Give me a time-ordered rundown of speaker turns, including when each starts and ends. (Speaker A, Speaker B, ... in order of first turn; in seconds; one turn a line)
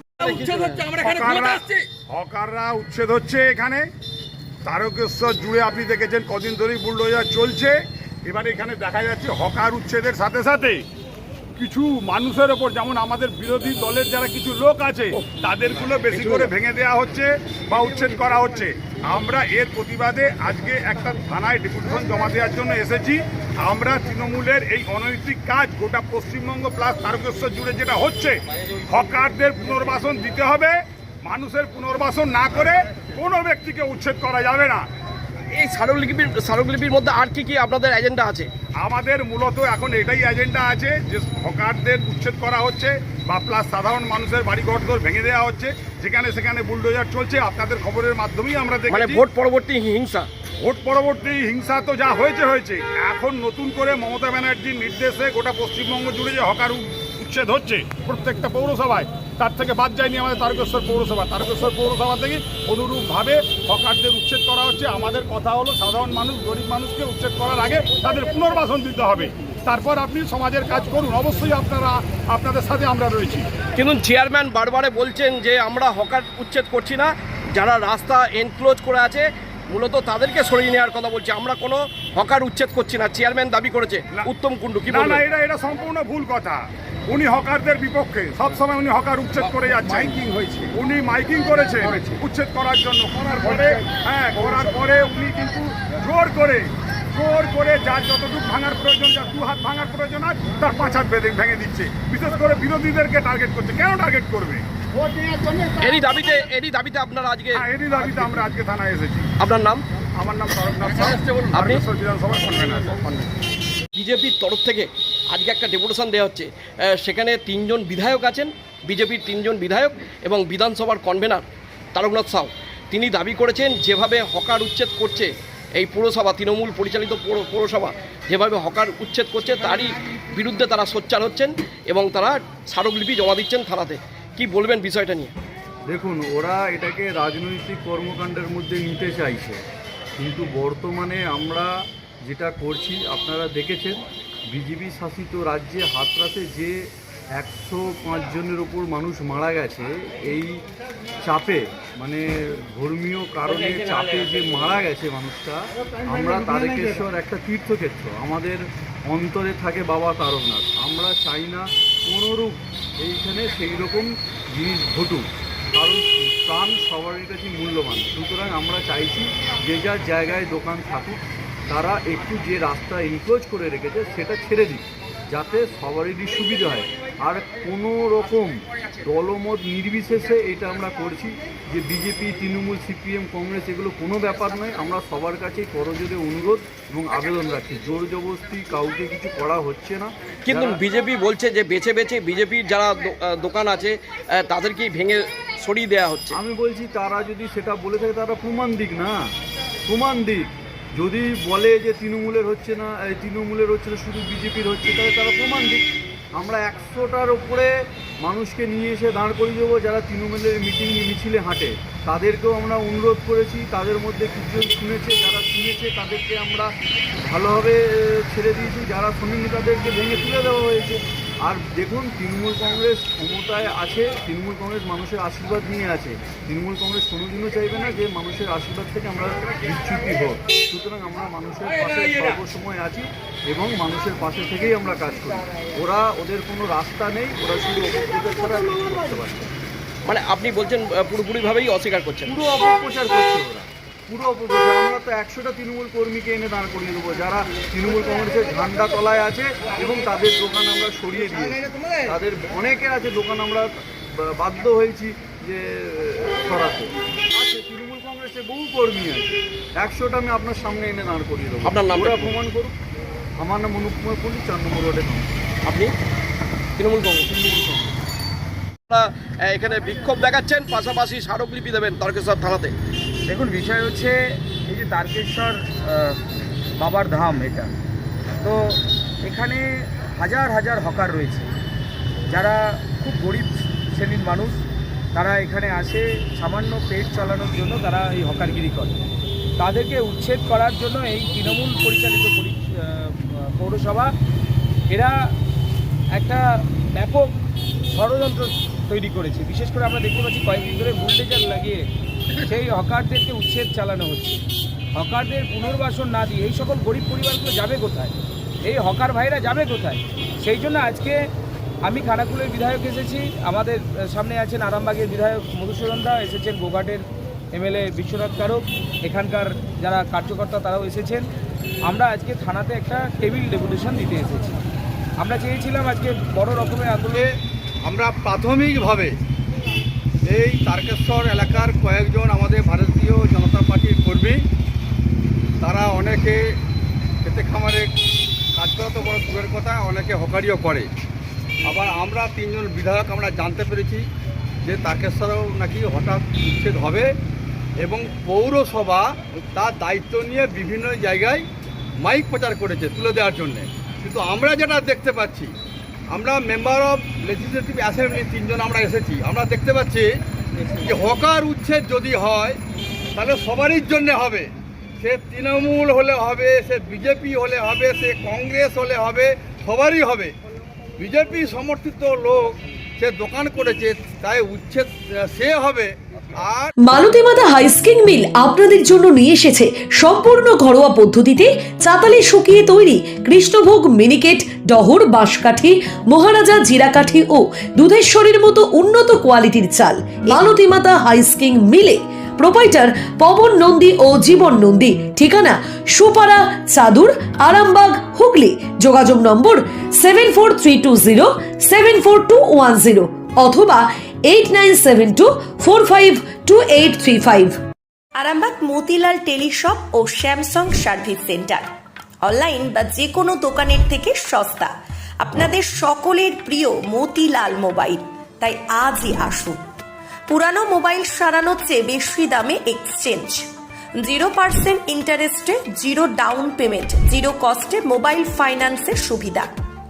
Speaker A: 0.2-0.9
Speaker B: 0.9-3.8
Speaker B: 4.7-10.8
Speaker B: 11.6-34.8
Speaker A: 16.1-16.5
Speaker A: 35.5-38.5
Speaker B: 38.8-49.2
Speaker A: 48.9-50.3
Speaker B: 50.6-73.5
Speaker A: 73.8-85.2
Speaker B: 84.9-90.1
Speaker A: 89.9-90.6
Speaker B: 90.7-104.6
Speaker A: 105.8-107.6
Speaker B: 107.5-109.3
Speaker A: 109.4-109.8
Speaker B: 110.2-113.3
Speaker A: 111.0-111.8
Speaker A: 113.9-116.5
Speaker A: 117.0-125.3
Speaker A: 125.8-135.3
Speaker C: 135.9-139.6
Speaker C: 140.2-150.6
Speaker C: 151.2-190.8
Speaker A: 190.5-196.4
Speaker C: 196.3-199.2
Speaker C: 199.9-205.8
Speaker C: 206.3-207.7
Speaker C: 208.2-239.5
Speaker A: 240.0-242.3
Speaker C: 242.2-262.8
Speaker A: 261.6-262.4
Speaker C: 263.4-265.4
Speaker A: 265.6-265.9
Speaker A: 266.8-267.3
Speaker C: 267.3-267.9
Speaker A: 268.9-272.7
Speaker D: 273.2-276.2
Speaker D: 276.8-277.7
Speaker D: 278.4-281.5
Speaker D: 282.3-284.6
Speaker D: 285.1-289.0
Speaker D: 289.6-294.1
Speaker D: 296.2-296.4
Speaker D: 296.9-297.3
Speaker D: 297.9-301.8
Speaker D: 302.4-304.4
Speaker D: 304.9-311.2
Speaker D: 311.8-321.2
Speaker D: 321.9-324.5
Speaker D: 325.2-327.2
Speaker E: 327.8-329.1
Speaker E: 330.3-334.4
Speaker E: 335.6-336.4
Speaker E: 337.2-337.9
Speaker E: 338.6-340.9
Speaker E: 341.7-344.0
Speaker E: 344.6-347.1
Speaker E: 347.8-351.4
Speaker E: 352.0-355.5
Speaker E: 356.1-360.1
Speaker E: 360.8-362.6
Speaker E: 363.1-364.5
Speaker E: 365.0-370.3
Speaker E: 371.0-376.7
Speaker F: 376.8-407.6
Speaker G: 408.2-411.6
Speaker G: 412.2-414.7
Speaker G: 415.2-419.6
Speaker G: 420.3-423.3
Speaker G: 424.0-429.5